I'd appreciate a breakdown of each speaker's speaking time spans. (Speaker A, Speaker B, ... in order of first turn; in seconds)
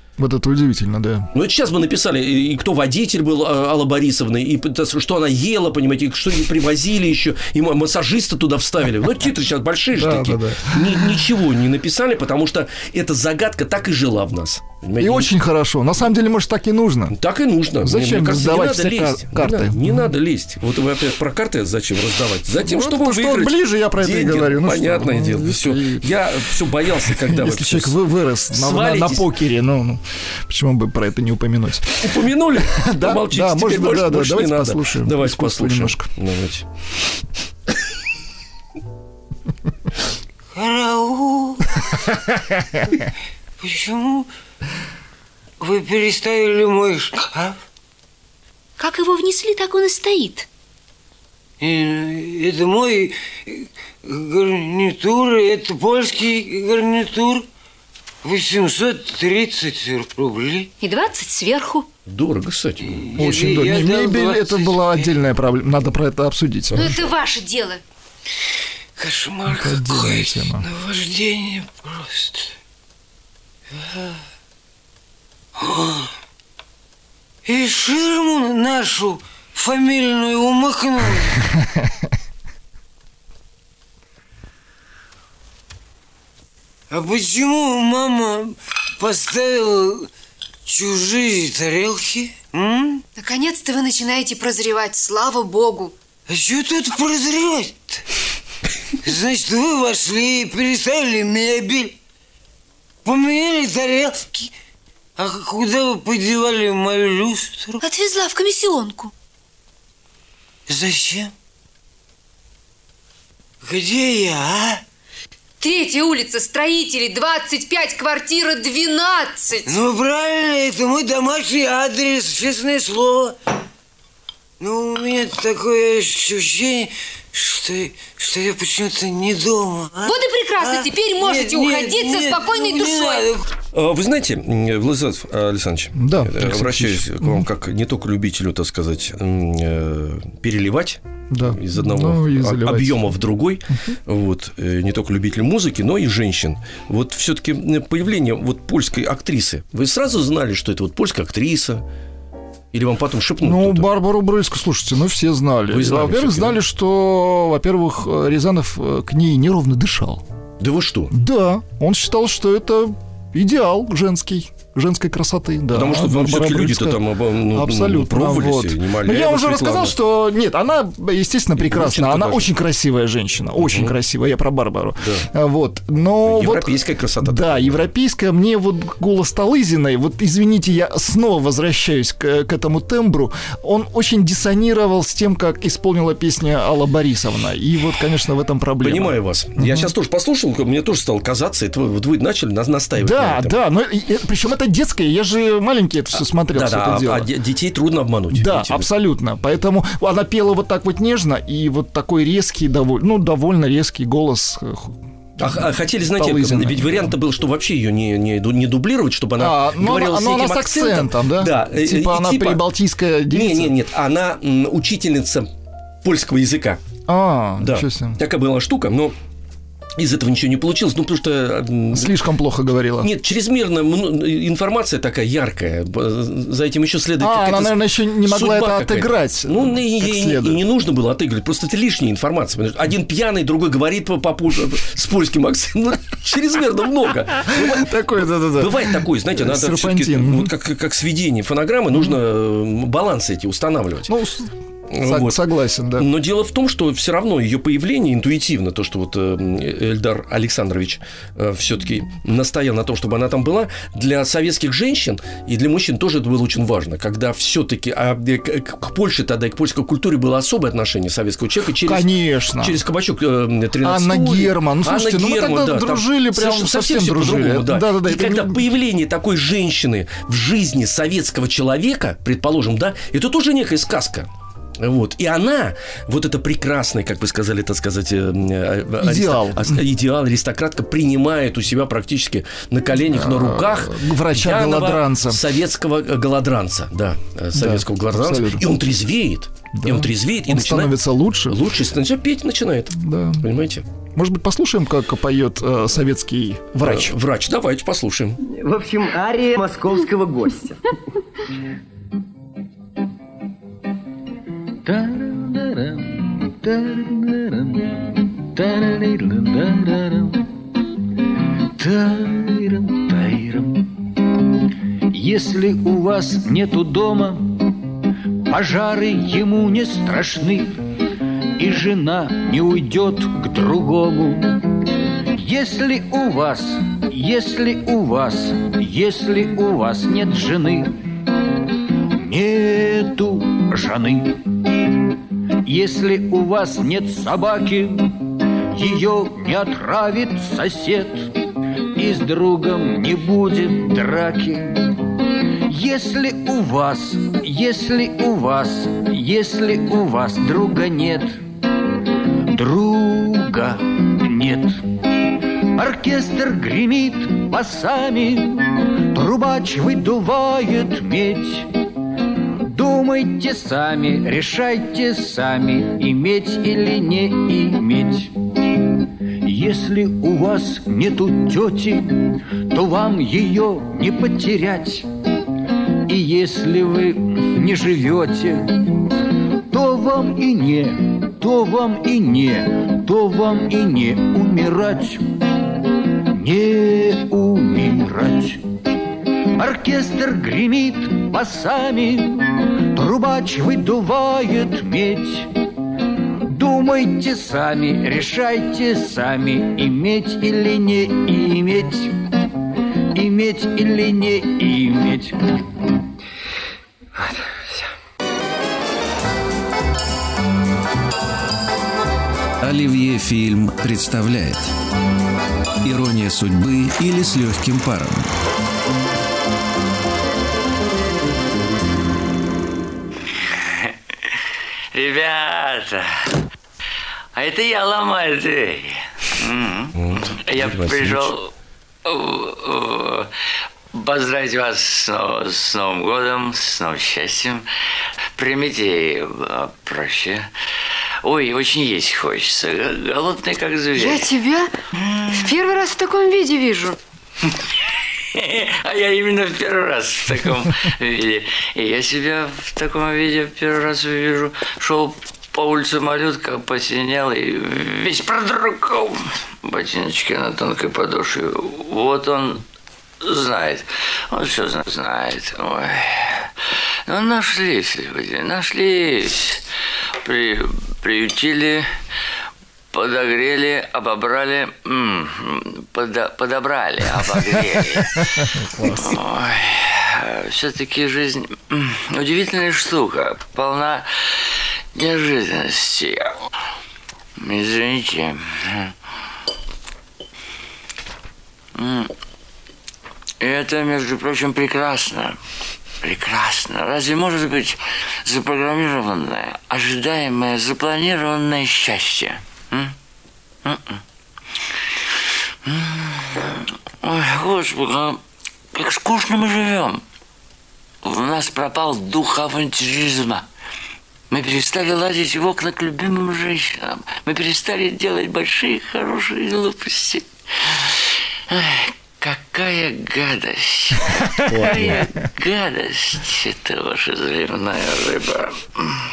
Speaker A: 0.2-1.3, 9.9-11.2, 15.0-17.2, 17.8-20.1, 22.6-26.1, 27.1-36.1, 63.2-67.0, 69.5-70.7, 136.0-137.5, 141.3-143.1, 153.4-160.2, 161.1-189.9, 193.0-197.3, 198.3-207.2, 209.4-213.8, 217.1-218.2, 221.9-223.1, 227.2-230.6, 237.5-240.5, 244.1-246.1, 261.8-262.8, 263.8-268.6, 279.0-279.8, 283.0-285.4, 287.6-288.7, 289.8-291.6, 292.9-293.5, 294.2-297.1
Speaker B: 1.3-15.3, 17.1-28.0, 28.5-29.3, 32.0-36.6, 62.1-63.1, 133.7-151.8, 152.7-153.9, 155.7-156.6, 160.6-161.1, 165.7-170.0, 171.6-172.5, 173.6-173.9, 175.0-175.3, 176.2-177.9, 188.8-193.6, 196.5-198.9, 205.4-212.7, 213.3-215.5, 216.0-216.8, 217.6-219.2, 220.0-222.2, 223.0-244.1, 244.9-293.9, 296.8-298.4, 430.0-431.4, 524.5-525.0
Speaker C: 40.5-41.9, 43.6-44.3, 45.6-47.6, 51.6-57.5, 58.2-60.7, 62.8-65.1, 69.0-72.5, 73.7-74.2, 75.6-76.1, 77.5-81.4, 86.9-90.1, 90.7-93.0, 96.3-98.0, 99.0-102.0, 103.0-104.5, 105.2-107.8, 110.7-111.3, 113.6-114.8, 119.7-123.4, 124.6-133.5
Speaker D: 48.8-50.5, 60.8-61.9, 66.8-67.8, 93.2-95.9, 107.8-109.1, 115.6-119.7, 130.0-133.3, 444.0-444.7, 445.4-447.0
Speaker E: 298.6-300.7
Speaker F: 304.9-310.5, 311.8-314.1, 315.1-317.9, 318.5-320.8, 321.6-324.8, 325.3-330.9, 332.2-334.9, 335.6-341.3, 341.9-345.0, 345.7-351.4, 352.5-354.8, 355.7-361.7, 362.6-368.3, 369.4-375.1, 376.1-385.3, 386.2-388.6, 389.5-395.5, 396.5-402.2, 403.1-405.4
Speaker G: 412.6-414.7, 415.8-418.3
Speaker H: 423.4-424.4, 424.9-426.1, 427.4-431.5, 432.1-433.3, 433.9-437.6, 438.4-440.5, 441.2-444.3, 445.0-445.5, 448.3-462.6, 463.2-466.5, 467.1-469.6, 470.2-471.9, 472.9-484.1, 484.9-486.3, 487.4-488.9, 491.8-492.1, 493.4-495.4, 496.0-502.9, 503.6-504.0, 505.7-508.2, 508.7-510.0, 511.0-513.5, 514.3-521.0, 521.5-528.8